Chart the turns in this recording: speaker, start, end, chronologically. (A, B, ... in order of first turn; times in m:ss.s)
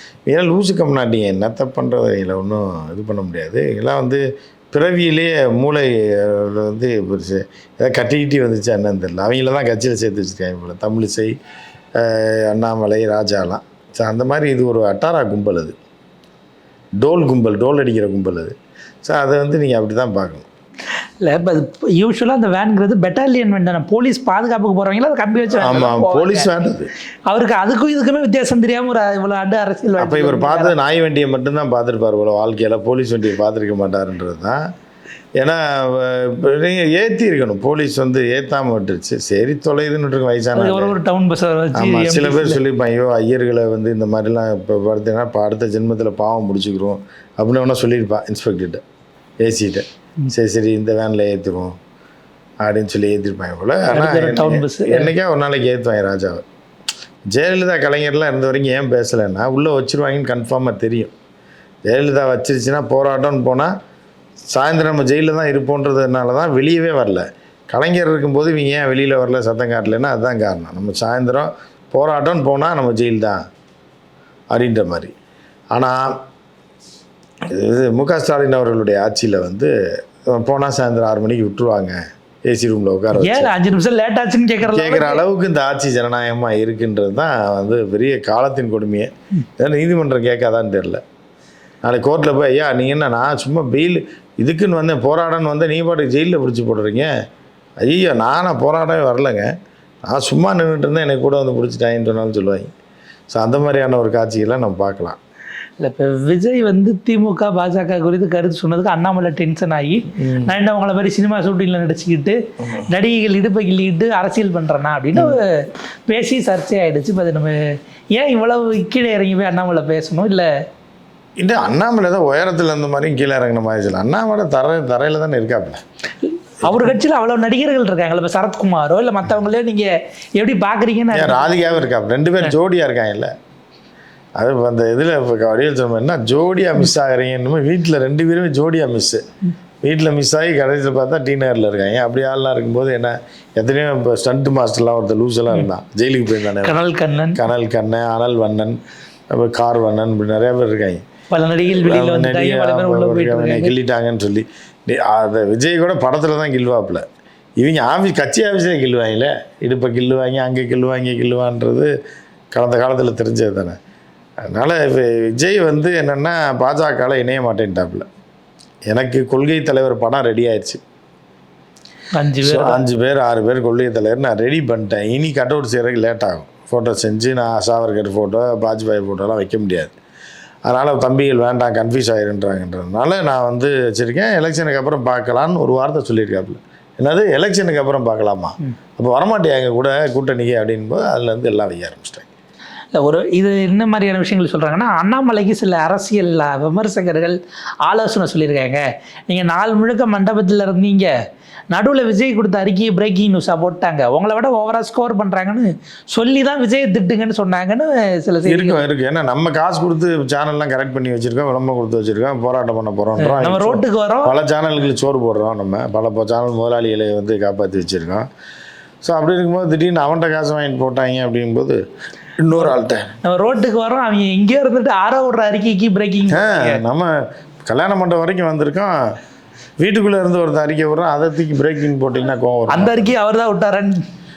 0:00.2-0:11.3 A
0:12.0-0:15.7 A
0:17.0-0:20.4 A
0:21.2-0:26.5 B
0:25.6-0:26.9 A
0:27.3-0:30.7 B
0:30.0-0:34.6 A
0:35.4-0:40.9 A
0:40.6-0:42.6 B
0:41.7-0:48.8 A
0:49.4-0:51.8 A
0:52.6-0:56.4 A
0:53.9-0:55.1 B
0:57.3-1:01.1 A
1:01.8-1:03.7 A
1:04.5-1:13.4 A
1:14.5-1:15.1 A
1:15.7-1:16.1 A
1:17.4-1:23.5 A
1:23.1-1:25.2 B
1:24.6-1:31.0 A
1:31.8-1:37.1 A
1:37.8-1:39.5 A
1:40.0-1:42.7 A
1:43.3-1:45.2 A
1:45.8-1:57.6 B
1:50.2-1:50.5 A
1:58.1-2:00.5 B
2:01.4-2:05.8 A
2:06.2-2:11.7 B
2:06.6-2:07.0 A
2:11.1-2:13.3 A
2:14.4-2:19.2 A
2:19.8-2:26.8 A
2:26.6-2:27.4 B
2:27.3-2:28.8 A
2:29.3-2:31.0 A
2:31.3-2:33.7 B
2:31.6-2:37.0 A
2:37.6-2:41.9 A
2:42.5-2:43.8 A
2:44.4-2:48.0 A
2:48.9-2:50.8 A
2:52.1-2:52.8 B
2:52.4-2:59.9 A
3:00.6-3:12.3 A
3:12.9-3:21.1 B
3:21.7-3:28.8 B
3:28.5-3:38.2 A
3:33.2-3:34.3 B
3:39.0-3:41.8 A
3:42.4-3:43.1 A
3:42.6-3:46.8 B
3:46.3-3:49.0 A
3:49.8-3:53.1 A
3:52.7-3:54.0 B